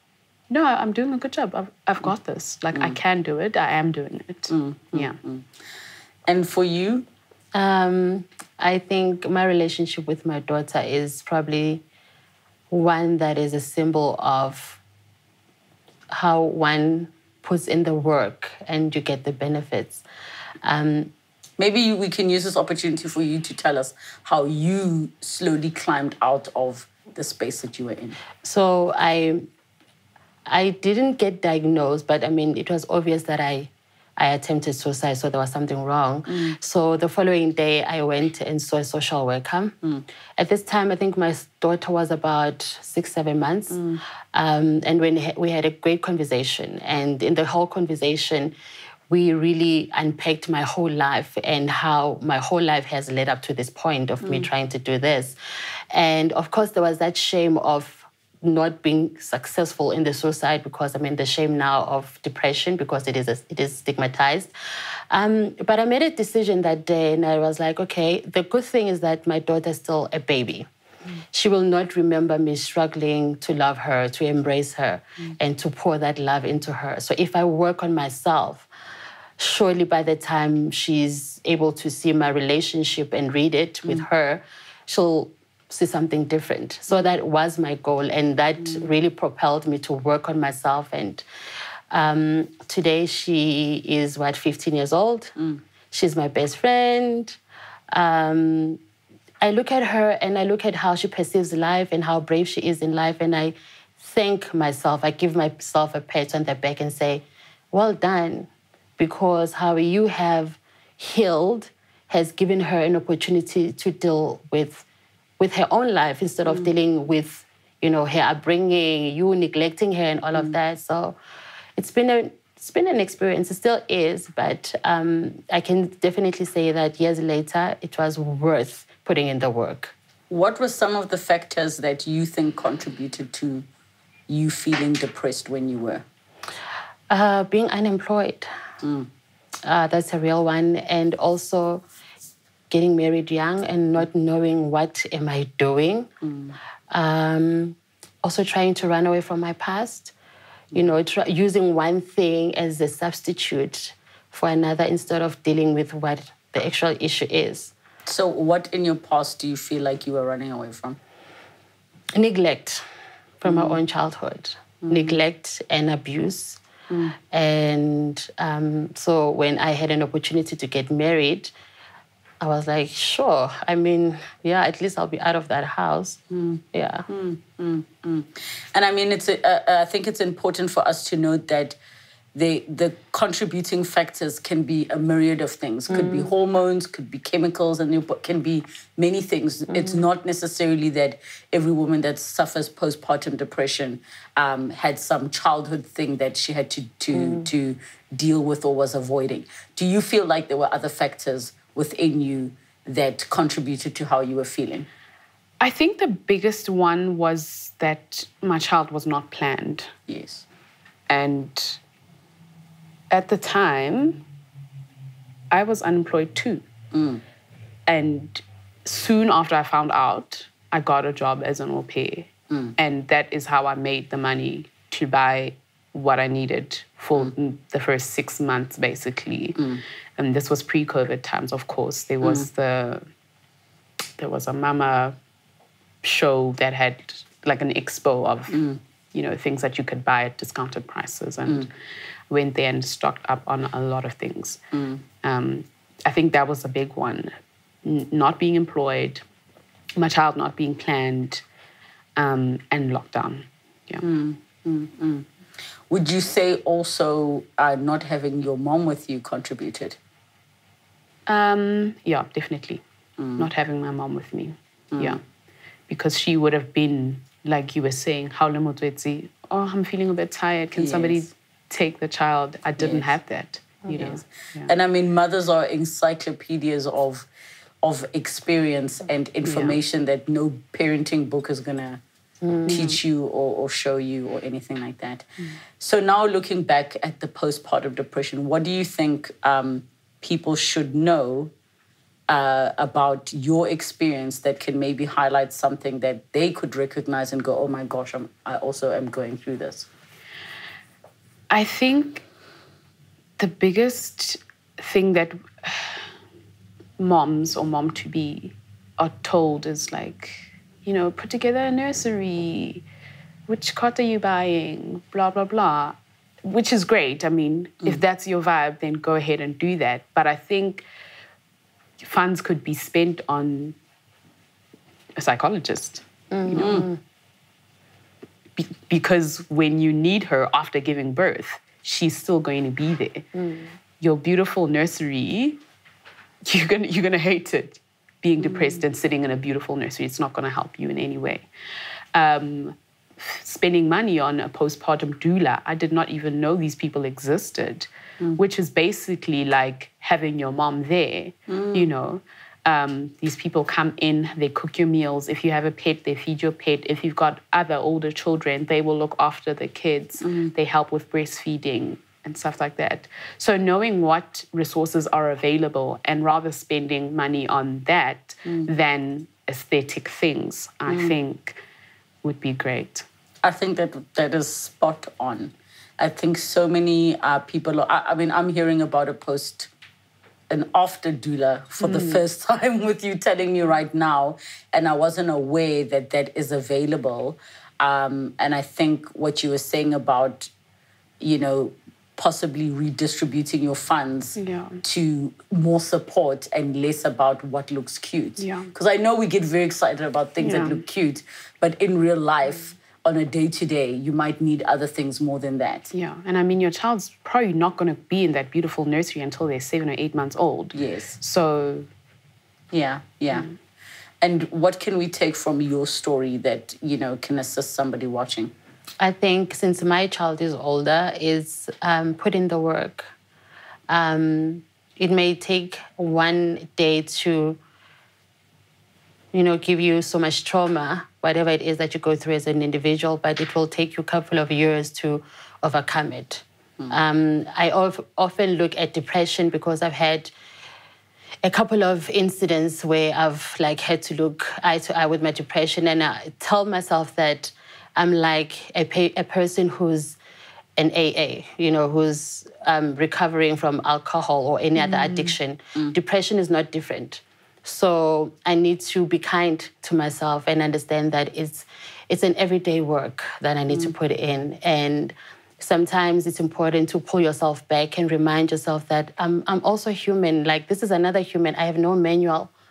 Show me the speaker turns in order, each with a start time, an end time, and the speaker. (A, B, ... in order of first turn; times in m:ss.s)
0:00.5-0:05.2 A
0:04.5-0:05.4 B
0:06.3-0:07.0 B
0:07.5-0:11.8 C
0:12.7-0:14.8 C
0:16.1-0:20.0 C
0:20.6-0:21.1 C
0:21.6-0:28.2 B
0:28.4-0:29.5 C
0:30.4-0:39.8 C
0:36.3-0:36.6 B
0:40.4-0:48.5 C
0:43.7-0:44.0 B
0:49.1-0:55.3 C
0:55.9-1:04.5 C
1:05.1-1:10.7 C
1:11.3-1:18.7 C
1:19.4-1:31.2 C
1:31.9-1:35.4 C
1:35.9-1:37.4 C
1:37.9-1:38.8 C
1:39.4-1:54.8 C
1:55.4-2:01.2 C
2:01.8-2:09.9 C
2:10.3-2:13.6 B
2:14.3-2:16.0 B
2:17.1-2:18.5 C
2:18.8-2:19.1 B
2:19.6-2:21.8 C
2:22.7-2:26.1 C
2:26.2-2:26.5 B
2:26.9-2:30.1 C
2:30.7-2:37.7 C
2:38.0-2:41.0 B
2:42.1-2:42.8 C
2:43.4-2:46.6 C
2:43.4-2:43.7 B
2:44.8-2:45.1 B
2:46.9-2:47.1 B
2:47.2-2:51.5 C
2:52.4-2:56.2 C
2:56.3-3:01.8 B
2:56.7-2:57.0 C
3:02.3-3:24.9 B
3:05.9-3:06.3 C
3:25.6-3:29.9 A
3:30.1-3:30.4 B
3:31.1-3:31.8 A
3:33.1-3:34.2 A
3:35.5-3:36.6 A
3:36.9-3:37.2 B
3:37.9-3:53.0 A
3:54.2-3:55.2 A
3:56.0-3:58.6 A
3:58.5-3:58.8 B
3:59.1-4:01.7 A
4:02.3-4:04.6 A
4:04.7-4:05.0 B
4:05.2-4:09.2 A
4:10.0-4:11.4 A
4:12.2-4:14.0 A
4:14.0-4:15.2 B
4:15.9-4:20.0 B
4:21.3-4:22.8 A
4:23.2-4:23.5 B
4:23.4-4:25.2 A
4:24.9-4:25.2 B
4:25.9-4:34.7 A
4:30.8-4:31.3 B
4:32.8-4:33.1 B
4:34.7-4:37.3 B
4:37.8-4:42.0 B
4:39.4-4:39.8 A
4:42.4-4:42.7 C
4:42.6-4:51.5 B
4:42.7-4:43.0 A
4:52.3-4:59.9 B
5:01.5-5:02.2 A
5:03.4-5:06.1 A
5:07.0-5:12.8 A
5:13.5-5:20.8 A
5:22.0-5:23.8 A
5:25.2-5:26.9 A
5:26.3-5:27.0 C
5:26.6-5:26.8 B
5:28.6-5:33.2 A
5:33.4-5:33.7 C
5:34.0-5:35.6 A
5:36.4-5:41.5 A
5:42.1-6:11.6 A
5:51.5-5:51.9 B
6:00.2-6:00.5 B
6:10.9-6:11.2 B
6:12.2-6:13.0 A
6:13.4-6:19.7 B
6:20.5-6:30.5 B
6:21.8-6:22.2 A
6:31.2-6:45.9 B
6:34.4-6:34.8 A
6:38.4-6:38.7 A
6:40.4-6:40.8 A
6:45.9-6:51.9 A
6:50.7-6:51.2 B
6:52.7-6:53.5 B
6:54.2-6:58.5 B
6:59.0-7:03.1 C
7:03.9-7:07.6 C
7:09.3-7:20.3 C
7:21.4-7:30.2 C
7:30.8-7:52.5 C
7:34.8-7:35.3 A